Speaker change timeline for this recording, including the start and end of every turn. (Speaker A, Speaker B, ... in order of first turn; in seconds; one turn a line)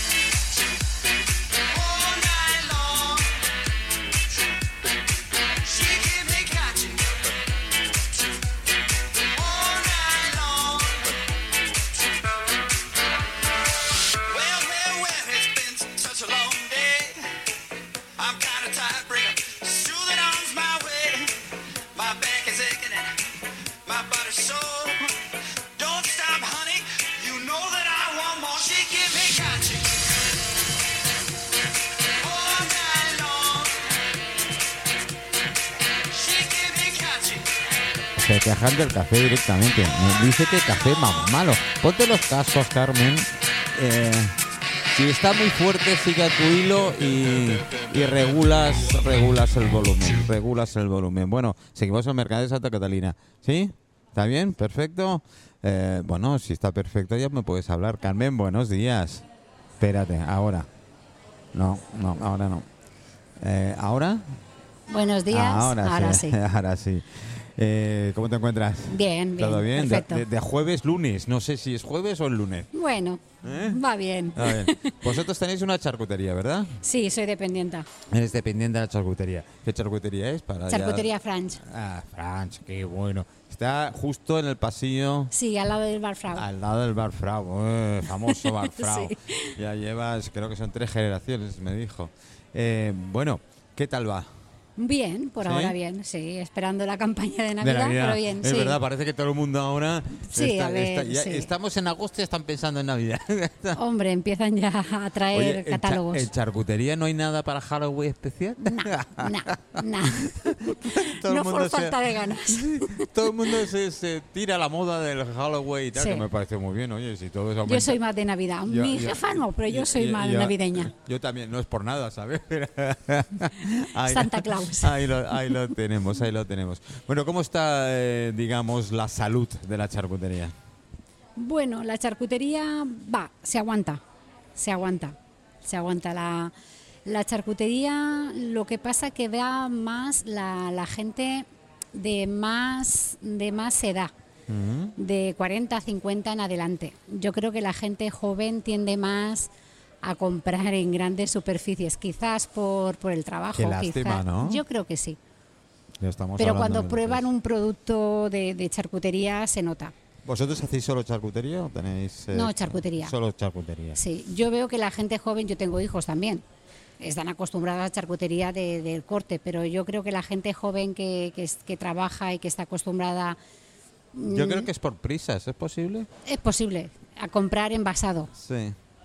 Speaker A: 0.5-3.4
Speaker A: 5.4-8.4
Speaker A: 9.2-11.2
Speaker A: 11.8-12.1
Speaker A: 14.2-17.3
Speaker A: 18.2-21.4
Speaker A: 21.9-23.1
Speaker A: 23.8-25.1
Speaker A: 25.8-30.0
Speaker A: 32.2-33.9
Speaker A: 36.1-37.5
Speaker B: 38.1-44.4
Speaker B: 44.9-59.2
Speaker B: 59.8-60.7
Speaker B: 61.5-62.6
Speaker B: 63.4-64.4
Speaker C: 64.9-66.4
Speaker B: 65.3-72.7
Speaker C: 68.9-70.2
Speaker C: 72.7-75.1
Speaker B: 73.4-73.8
Speaker B: 74.3-76.8
Speaker C: 76.8-77.8
Speaker B: 78.1-85.3
Speaker C: 80.7-81.6
Speaker C: 85.3-86.5
Speaker B: 86.3-94.3
Speaker C: 88.2-89.5
Speaker C: 94.8-98.8
Speaker B: 95.4-95.8
Speaker B: 97.6-103.8
Speaker C: 100.2-101.5
Speaker C: 103.7-106.3
Speaker B: 105.3-118.0
Speaker C: 108.6-113.5
Speaker C: 115.9-116.3
Speaker C: 117.7-120.9
Speaker B: 118.7-130.5
Speaker C: 124.0-125.6
Speaker C: 131.4-134.0
Speaker C: 134.6-136.5
Speaker C: 137.0-144.1
Speaker B: 144.5-144.9
Speaker C: 144.9-149.5
Speaker C: 150.0-155.2
Speaker B: 153.5-154.6
Speaker B: 156.0-157.2
Speaker C: 156.4-159.9
Speaker B: 160.2-164.0
Speaker C: 162.3-163.1
Speaker C: 163.9-166.4
Speaker C: 167.0-173.4
Speaker C: 174.1-174.7
Speaker B: 174.3-176.1
Speaker C: 176.2-178.3
Speaker B: 178.3-178.8